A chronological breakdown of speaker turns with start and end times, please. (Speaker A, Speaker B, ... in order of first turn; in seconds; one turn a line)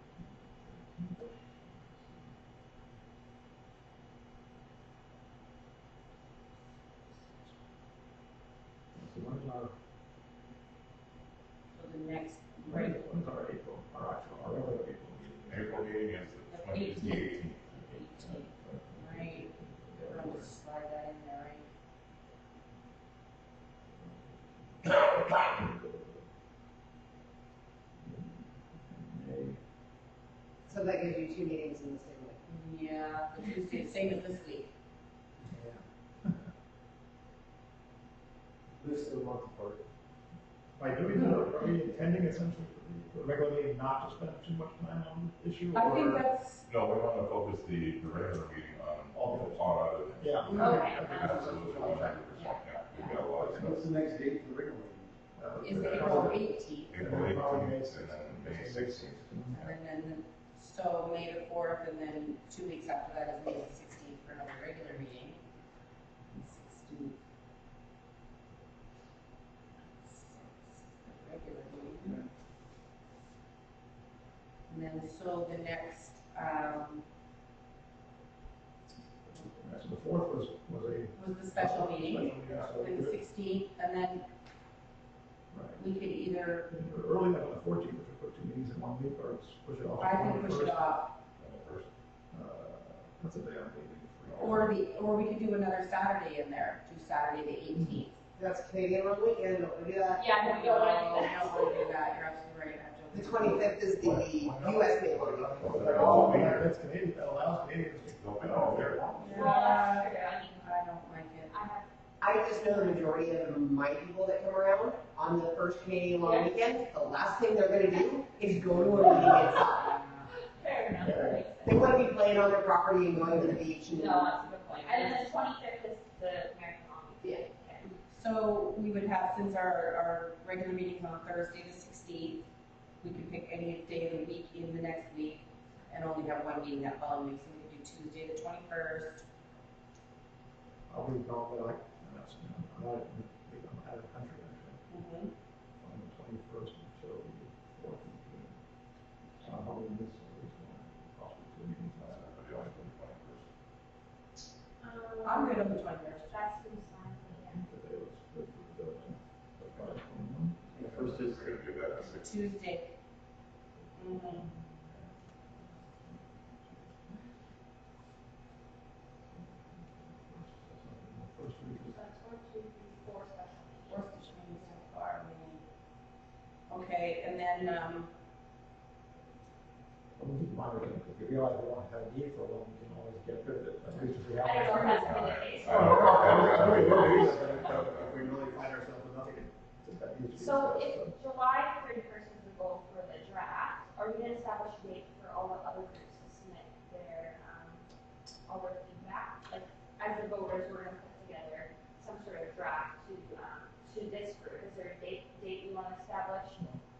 Speaker A: 0.6-1.6
Speaker A: 8.9-9.7
Speaker B: 11.7-13.0
Speaker A: 12.7-15.9
Speaker C: 15.4-17.7
Speaker B: 16.4-19.5
Speaker A: 17.7-20.5
Speaker B: 20.1-21.7
Speaker A: 24.0-26.2
Speaker A: 28.0-29.6
Speaker D: 30.7-32.4
Speaker B: 32.5-34.7
Speaker A: 35.5-35.8
Speaker E: 38.8-39.8
Speaker A: 40.8-46.2
Speaker B: 45.7-46.6
Speaker C: 46.6-53.9
Speaker A: 49.1-49.6
Speaker A: 50.2-52.3
Speaker F: 50.6-51.8
Speaker B: 50.6-50.9
Speaker B: 52.3-53.2
Speaker A: 52.9-53.6
Speaker E: 53.4-55.3
Speaker A: 55.4-56.3
Speaker C: 55.6-56.4
Speaker B: 55.6-57.2
Speaker E: 56.0-56.3
Speaker C: 56.9-59.3
Speaker A: 57.0-59.7
Speaker B: 59.5-65.4
Speaker B: 66.3-67.2
Speaker B: 70.0-72.2
Speaker B: 74.7-77.0
Speaker A: 79.5-83.2
Speaker B: 81.1-84.3
Speaker C: 82.4-82.7
Speaker A: 85.5-85.8
Speaker B: 85.8-86.7
Speaker A: 86.7-90.8
Speaker B: 90.0-91.1
Speaker C: 91.4-91.9
Speaker A: 92.3-94.8
Speaker B: 94.4-98.2
Speaker D: 98.3-100.2
Speaker F: 100.2-101.9
Speaker B: 100.4-103.8
Speaker D: 103.1-106.4
Speaker C: 104.0-106.7
Speaker A: 105.6-109.2
Speaker F: 105.9-106.2
Speaker C: 108.2-109.4
Speaker B: 109.2-111.5
Speaker F: 109.3-110.8
Speaker F: 111.5-113.1
Speaker D: 112.2-119.9
Speaker F: 116.2-116.7
Speaker B: 119.0-120.9
Speaker F: 120.2-122.0
Speaker A: 121.0-121.4
Speaker D: 121.6-124.3
Speaker F: 123.9-127.9
Speaker B: 124.6-125.3
Speaker B: 128.0-132.4
Speaker B: 133.0-139.2
Speaker A: 140.9-144.8
Speaker B: 144.9-145.3
Speaker A: 145.8-148.6
Speaker A: 149.4-152.8
Speaker C: 152.0-153.4
Speaker F: 154.8-157.7
Speaker B: 155.2-156.3
Speaker A: 157.4-161.2
Speaker C: 160.8-162.3
Speaker E: 160.8-161.5
Speaker B: 162.2-162.9
Speaker B: 163.9-164.5
Speaker A: 170.1-172.0
Speaker F: 171.8-174.8
Speaker B: 173.9-175.6
Speaker B: 176.7-178.1
Speaker A: 180.2-185.0
Speaker F: 184.4-187.6
Speaker B: 184.6-185.1
Speaker C: 184.9-188.7
Speaker A: 185.6-191.1
Speaker F: 190.3-197.8
Speaker F: 198.5-206.7